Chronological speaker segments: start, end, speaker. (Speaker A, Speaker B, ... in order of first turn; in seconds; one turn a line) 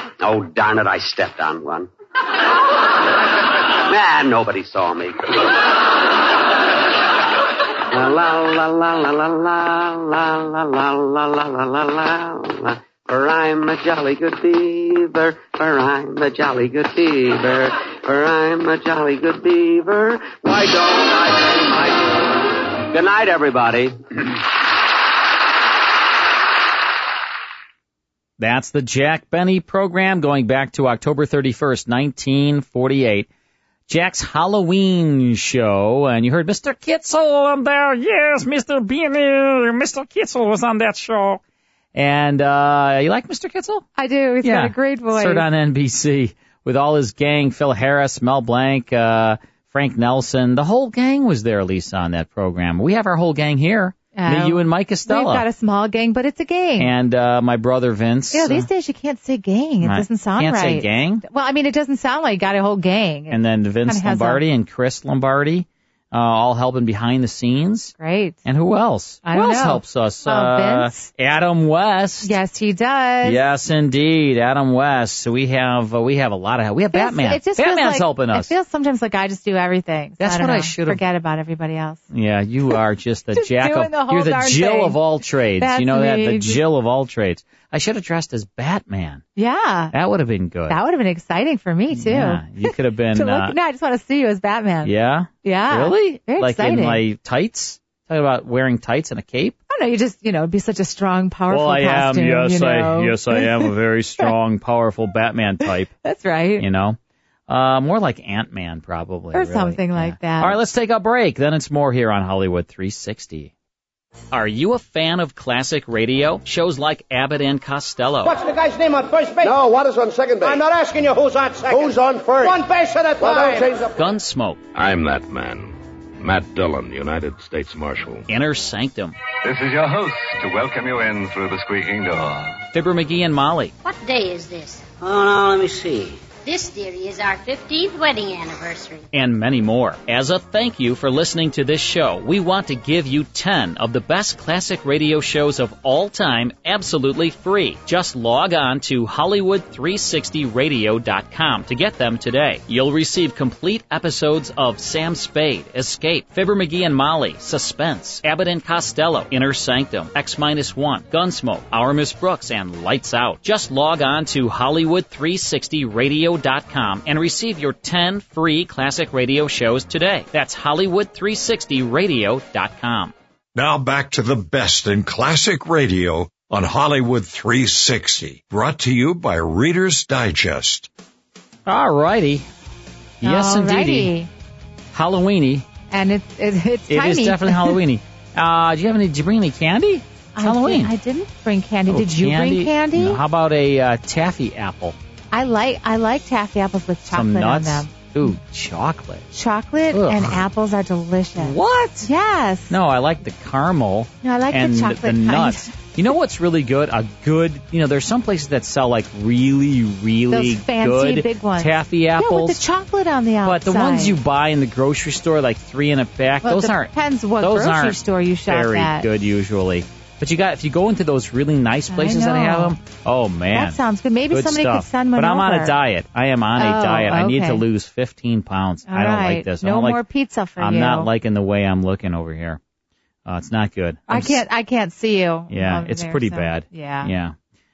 Speaker A: 0.2-1.9
Speaker A: 3.9-5.5
Speaker A: 7.9-22.1
Speaker A: 22.9-24.4
Speaker B: 28.4-33.3
Speaker B: 33.9-41.4
Speaker B: 41.9-43.9
Speaker C: 44.0-45.5
Speaker B: 44.4-55.5
Speaker C: 54.1-56.9
Speaker B: 56.8-58.7
Speaker C: 58.3-64.4
Speaker B: 59.8-61.2
Speaker B: 63.3-72.3
Speaker C: 68.0-68.4
Speaker C: 69.3-71.1
Speaker C: 72.2-73.4
Speaker B: 73.2-78.5
Speaker C: 76.9-82.0
Speaker B: 80.2-81.0
Speaker B: 82.1-89.2
Speaker C: 83.3-85.0
Speaker C: 85.6-86.6
Speaker C: 89.4-89.9
Speaker B: 89.9-90.8
Speaker C: 90.7-97.0
Speaker B: 91.9-93.6
Speaker B: 94.8-99.6
Speaker C: 99.7-104.3
Speaker B: 101.5-105.9
Speaker C: 106.0-106.7
Speaker B: 106.6-113.5
Speaker C: 109.3-110.6
Speaker B: 114.3-118.4
Speaker D: 118.3-123.9
Speaker C: 123.2-123.6
Speaker B: 123.9-124.6
Speaker E: 124.8-128.3
Speaker B: 128.3-129.2
Speaker F: 129.5-132.2
Speaker E: 130.6-132.5
Speaker B: 132.7-133.8
Speaker G: 133.8-134.9
Speaker G: 136.4-139.1
Speaker B: 139.1-173.1
Speaker H: 173.6-180.9
Speaker B: 181.7-182.5
Speaker B: 183.2-184.1
Speaker C: 183.2-184.3
Speaker B: 184.9-185.7
Speaker C: 185.9-187.8
Speaker B: 186.9-190.9
Speaker C: 190.4-193.2
Speaker B: 191.9-195.0
Speaker C: 195.3-198.3
Speaker B: 197.1-199.3
Speaker C: 199.3-202.8
Speaker B: 199.9-200.4
Speaker B: 201.4-202.1
Speaker B: 202.7-212.6
Speaker C: 204.2-205.7
Speaker C: 210.3-214.2
Speaker B: 213.4-223.8
Speaker C: 216.4-219.1
Speaker C: 221.9-222.8
Speaker C: 223.5-225.8
Speaker B: 224.3-230.0
Speaker C: 226.6-227.6
Speaker C: 228.9-231.1
Speaker B: 230.6-232.6
Speaker B: 233.3-234.4
Speaker C: 234.1-237.1
Speaker B: 235.5-237.3